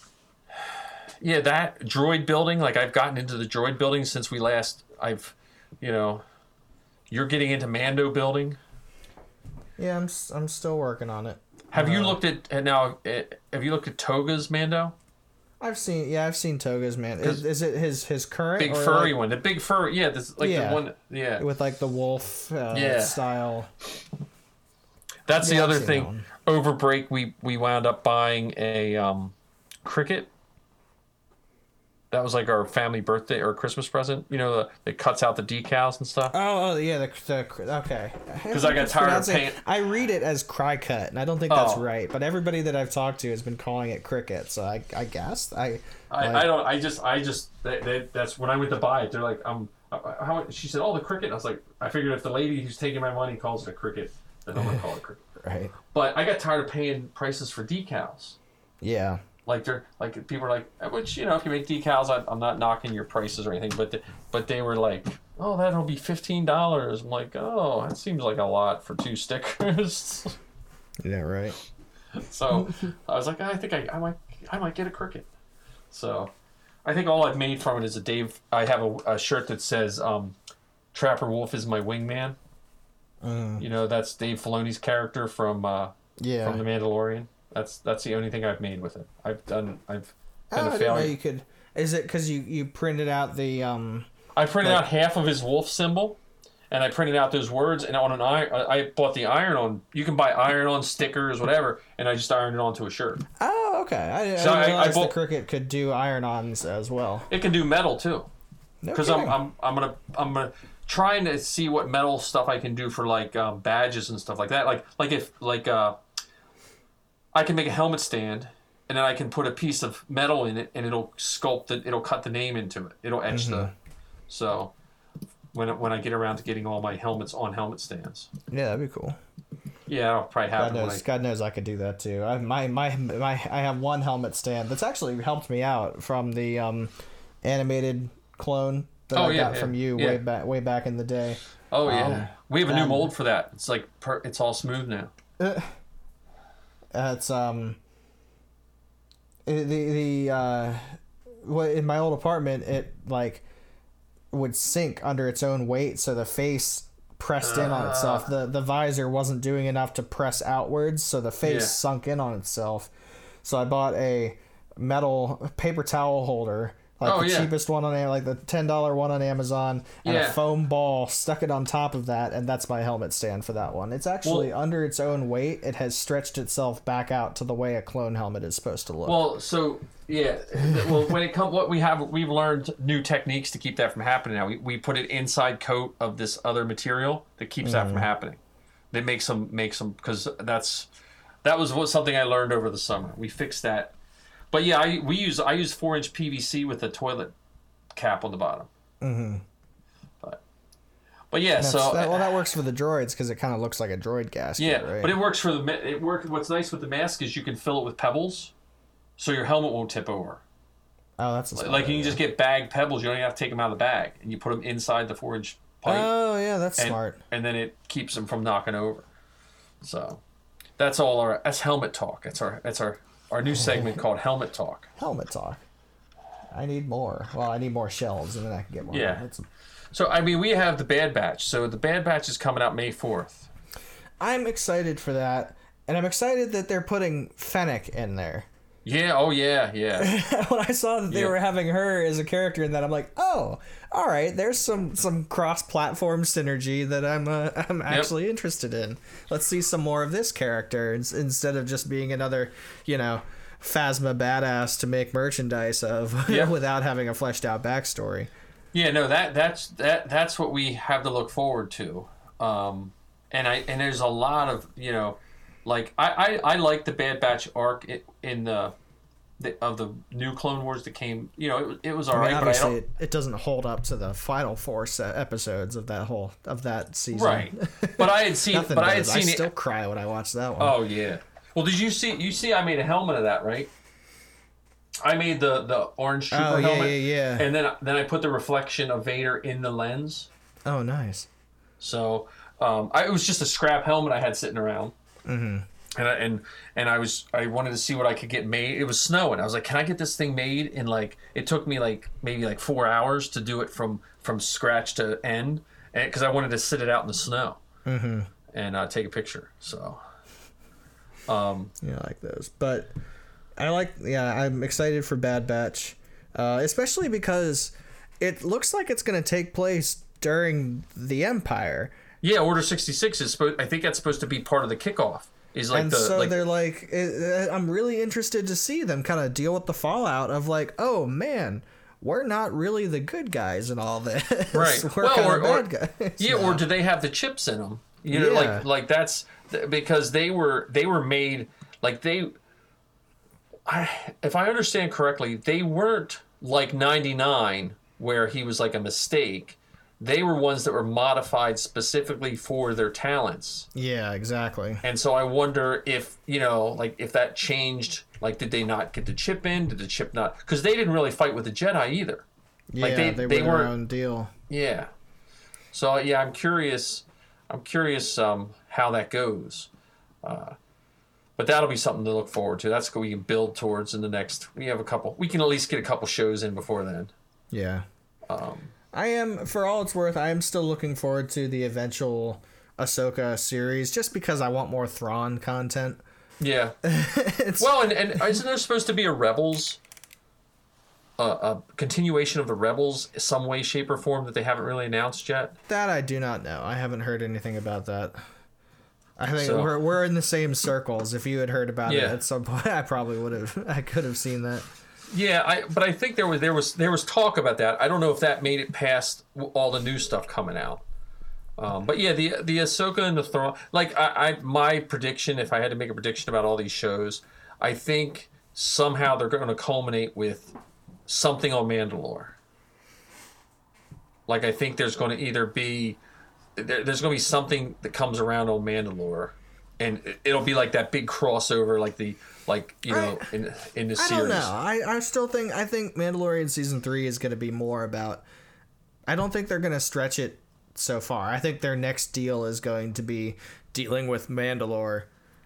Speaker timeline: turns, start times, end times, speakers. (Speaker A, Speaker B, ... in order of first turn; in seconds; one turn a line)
Speaker A: 0.8-6.2
Speaker A: 7.1-8.6
Speaker B: 9.8-12.2
Speaker A: 11.7-14.9
Speaker B: 15.6-19.1
Speaker A: 18.6-21.4
Speaker B: 20.4-20.8
Speaker B: 21.4-23.7
Speaker A: 22.7-23.2
Speaker A: 25.3-30.3
Speaker B: 25.4-26.3
Speaker A: 32.1-36.4
Speaker B: 36.3-46.5
Speaker A: 38.5-39.6
Speaker A: 41.5-41.9
Speaker A: 46.1-55.2
Speaker B: 55.4-55.7
Speaker A: 55.9-58.4
Speaker B: 58.8-59.2
Speaker A: 59.5-70.4
Speaker B: 71.0-71.6
Speaker A: 72.2-75.3
Speaker B: 72.5-72.9
Speaker A: 75.9-76.3
Speaker A: 76.8-80.4
Speaker A: 80.9-82.4
Speaker B: 83.2-83.6
Speaker A: 83.6-91.2
Speaker B: 86.2-86.6
Speaker B: 90.5-94.1
Speaker A: 94.3-96.2
Speaker A: 96.7-103.2
Speaker B: 103.4-107.3
Speaker A: 104.4-105.1
Speaker A: 107.3-108.3
Speaker B: 108.8-109.4
Speaker A: 108.9-116.0
Speaker A: 117.3-123.7
Speaker B: 123.3-123.7
Speaker A: 124.3-124.7
Speaker A: 125.5-128.3
Speaker B: 128.5-129.2
Speaker A: 129.9-131.0
Speaker B: 130.6-136.9
Speaker B: 137.4-143.1
Speaker A: 139.1-140.2
Speaker A: 141.7-145.1
Speaker B: 145.4-145.8
Speaker B: 146.9-147.8
Speaker B: 149.5-153.4
Speaker B: 154.3-162.9
Speaker A: 157.4-158.3
Speaker A: 161.4-161.8
Speaker B: 163.4-179.2
Speaker A: 167.0-167.5
Speaker A: 170.0-170.4
Speaker A: 174.2-174.5
Speaker A: 179.1-188.4
Speaker B: 180.6-181.2
Speaker B: 187.6-188.1
Speaker A: 188.9-190.9
Speaker A: 191.4-193.9
Speaker A: 194.5-197.3
Speaker A: 197.9-198.7
Speaker B: 199.0-199.4
Speaker A: 201.3-202.4
Speaker B: 201.6-205.2
Speaker A: 204.6-208.5
Speaker A: 209.2-210.4
Speaker B: 211.2-212.2
Speaker A: 211.6-216.1
Speaker B: 215.9-217.2
Speaker A: 216.8-219.1
Speaker A: 219.8-220.2
Speaker A: 220.8-224.9
Speaker B: 223.5-224.0
Speaker B: 225.0-225.6
Speaker B: 226.5-229.4
Speaker A: 228.9-229.2
Speaker A: 229.9-233.5
Speaker B: 234.2-238.5
Speaker A: 238.8-240.1
Speaker B: 240.0-258.3
Speaker A: 256.3-256.5
Speaker A: 258.7-268.8
Speaker A: 269.4-272.8
Speaker B: 272.1-280.8
Speaker A: 277.1-279.5
Speaker A: 280.6-283.7
Speaker A: 285.0-290.3
Speaker B: 286.3-287.5
Speaker B: 290.7-291.3
Speaker A: 291.8-294.9
Speaker B: 295.3-295.7
Speaker A: 296.0-307.6
Speaker B: 307.9-308.3
Speaker A: 308.5-310.0
Speaker A: 311.3-311.7
Speaker B: 311.8-312.9
Speaker B: 313.6-321.9
Speaker A: 322.2-326.4
Speaker B: 325.7-336.6
Speaker A: 334.5-335.7
Speaker A: 336.2-342.3
Speaker B: 338.1-338.7
Speaker A: 343.7-353.7
Speaker B: 353.8-354.8
Speaker A: 354.8-362.3
Speaker B: 362.7-364.3
Speaker A: 362.8-363.7
Speaker A: 364.5-364.9
Speaker A: 365.7-369.7
Speaker A: 370.2-370.6
Speaker A: 371.4-377.1
Speaker B: 377.5-377.9
Speaker A: 378.3-378.7
Speaker B: 378.9-386.0
Speaker A: 386.4-386.8
Speaker B: 386.8-388.4
Speaker A: 387.6-389.8
Speaker A: 391.2-395.6
Speaker B: 395.7-398.2
Speaker B: 399.2-404.7
Speaker A: 399.4-399.7
Speaker A: 401.9-402.2
Speaker A: 405.1-410.8
Speaker A: 411.6-420.6
Speaker A: 421.1-422.4
Speaker A: 424.3-426.0
Speaker A: 426.6-434.5
Speaker B: 432.9-433.2
Speaker B: 434.0-438.2
Speaker B: 439.1-445.1